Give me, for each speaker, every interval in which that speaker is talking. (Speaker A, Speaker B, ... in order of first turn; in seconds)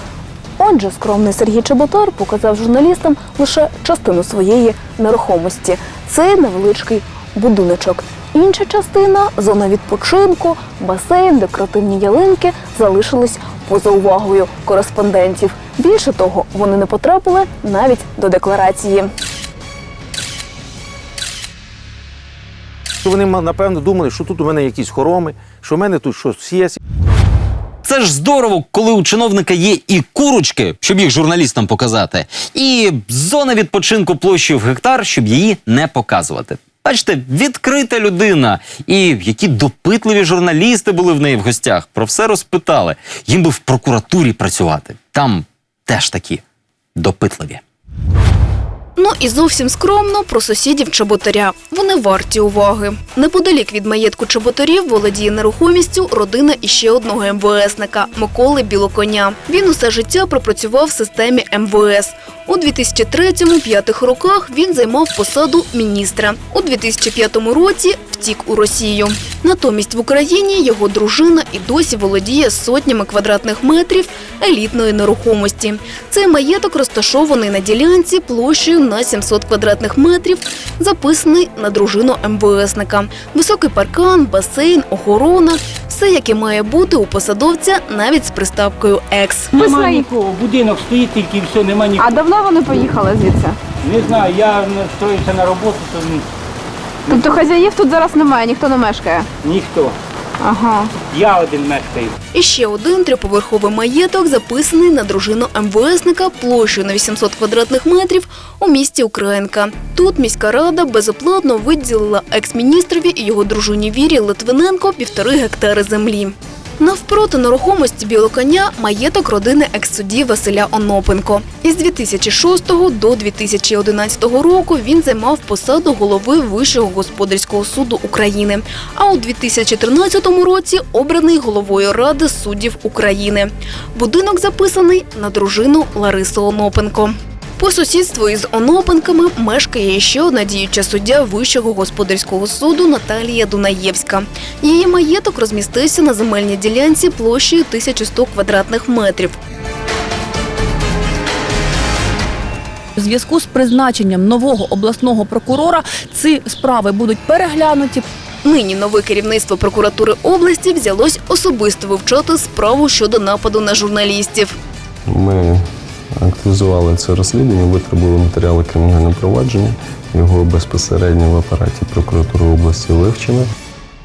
Speaker A: 0.6-13.6, 14.4-19.1, 49.0-89.5, 102.3-149.4, 158.4-164.6
Speaker B: 23.0-26.8
Speaker C: 27.8-46.4, 47.0-47.6
Speaker D: 89.5-90.1, 92.0-93.6, 97.1-99.3, 100.4-100.9
Speaker E: 89.5-92.2, 93.8-96.2, 97.1-97.4, 99.4-100.0, 101.1-102.1
Speaker F: 153.0-158.1
Speaker G: 165.1-173.5